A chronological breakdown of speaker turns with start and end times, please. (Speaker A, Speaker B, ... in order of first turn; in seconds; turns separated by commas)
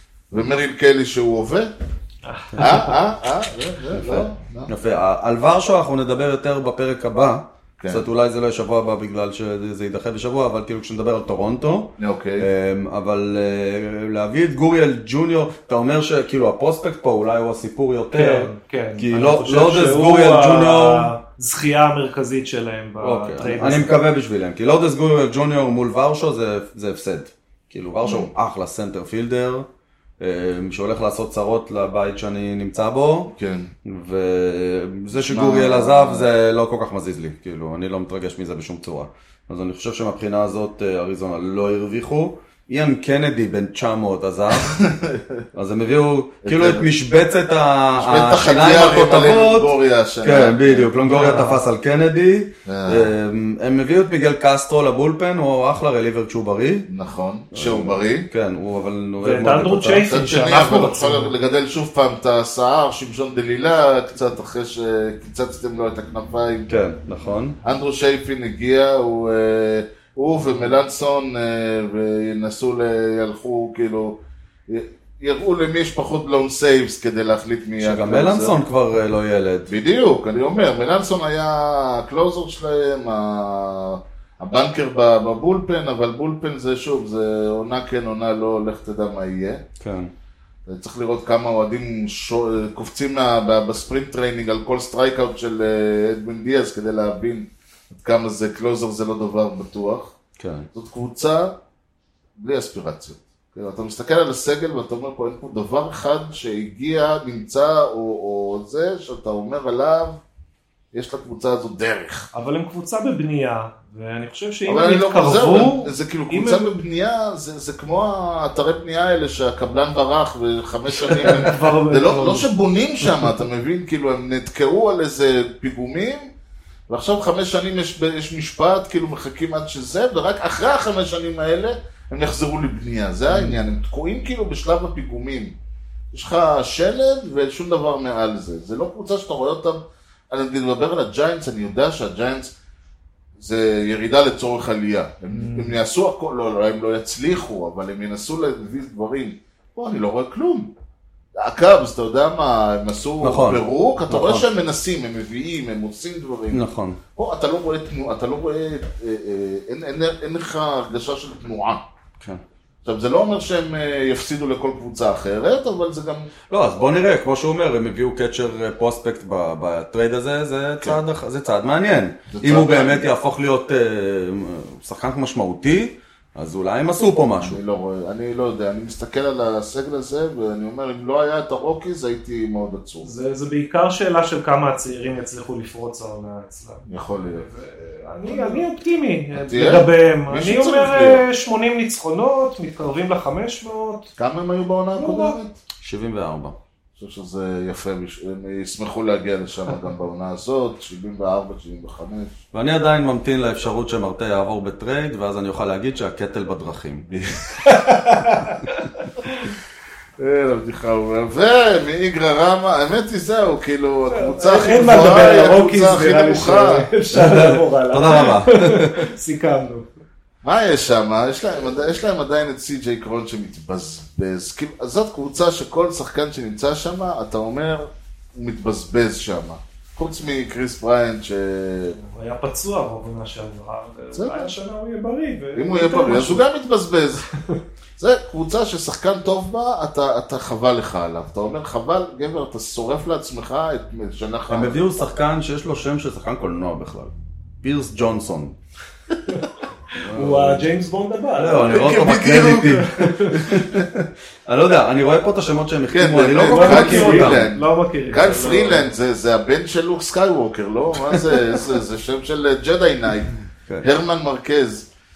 Speaker A: 0.3-1.7, Speaker B: 2.2-2.9, Speaker A: 2.6-4.7, Speaker C: 3.9-21.1, Speaker A: 7.8-8.1, Speaker A: 12.0-12.5, Speaker B: 18.1-24.0, Speaker C: 23.0-29.7, Speaker A: 28.0-28.3, Speaker C: 30.2-33.3, Speaker A: 33.3-33.7, Speaker C: 33.8-44.8, Speaker A: 35.1-36.3, Speaker A: 44.6-45.4, Speaker C: 45.5-49.7, Speaker A: 46.4-46.9, Speaker A: 48.0-50.9, Speaker C: 50.2-56.9, Speaker B: 51.1-51.6, Speaker A: 52.6-53.1, Speaker A: 56.9-58.3, Speaker C: 57.5-60.1, Speaker B: 59.2-61.3, Speaker A: 60.1-66.7, Speaker C: 66.7-67.6, Speaker A: 67.6-78.6, Speaker C: 77.8-79.7, Speaker A: 79.7-89.6, Speaker C: 89.8-90.1, Speaker A: 90.7-100.1, Speaker C: 100.4-100.7, Speaker A: 100.7-101.5, Speaker A: 102.4-110.2, Speaker A: 110.9-112.3, Speaker B: 112.3-116.7, Speaker A: 114.7-126.3, Speaker B: 121.0-122.5, Speaker A: 126.9-135.6, Speaker B: 133.3-133.6, Speaker A: 136.1-142.5, Speaker A: 143.4-150.7, Speaker B: 145.3-145.8, Speaker A: 151.3-156.6, Speaker C: 153.2-154.4, Speaker C: 156.5-157.0, Speaker A: 157.2-161.8, Speaker A: 162.8-166.3, Speaker C: 166.5-177.6, Speaker A: 172.3-173.1, Speaker A: 177.3-183.1, Speaker B: 183.0-194.1, Speaker A: 186.9-187.5, Speaker A: 188.3-188.6, Speaker A: 189.3-191.2, Speaker A: 194.2-195.6, Speaker B: 194.9-195.4, Speaker C: 195.8-196.6, Speaker A: 197.0-202.4, Speaker C: 202.5-207.1, Speaker A: 207.1-207.8, Speaker B: 207.6-209.5, Speaker A: 210.2-216.9, Speaker B: 214.1-219.9, Speaker C: 217.1-219.1, Speaker A: 220.4-232.0, Speaker B: 232.0-236.4, Speaker A: 234.1-234.5, Speaker A: 235.5-237.3, Speaker B: 237.3-237.6, Speaker A: 238.0-244.8, Speaker C: 244.5-248.6, Speaker B: 249.3-253.4, Speaker C: 249.9-250.7, Speaker C: 251.4-257.5, Speaker A: 251.6-253.9, Speaker A: 255.9-264.9, Speaker B: 256.4-258.9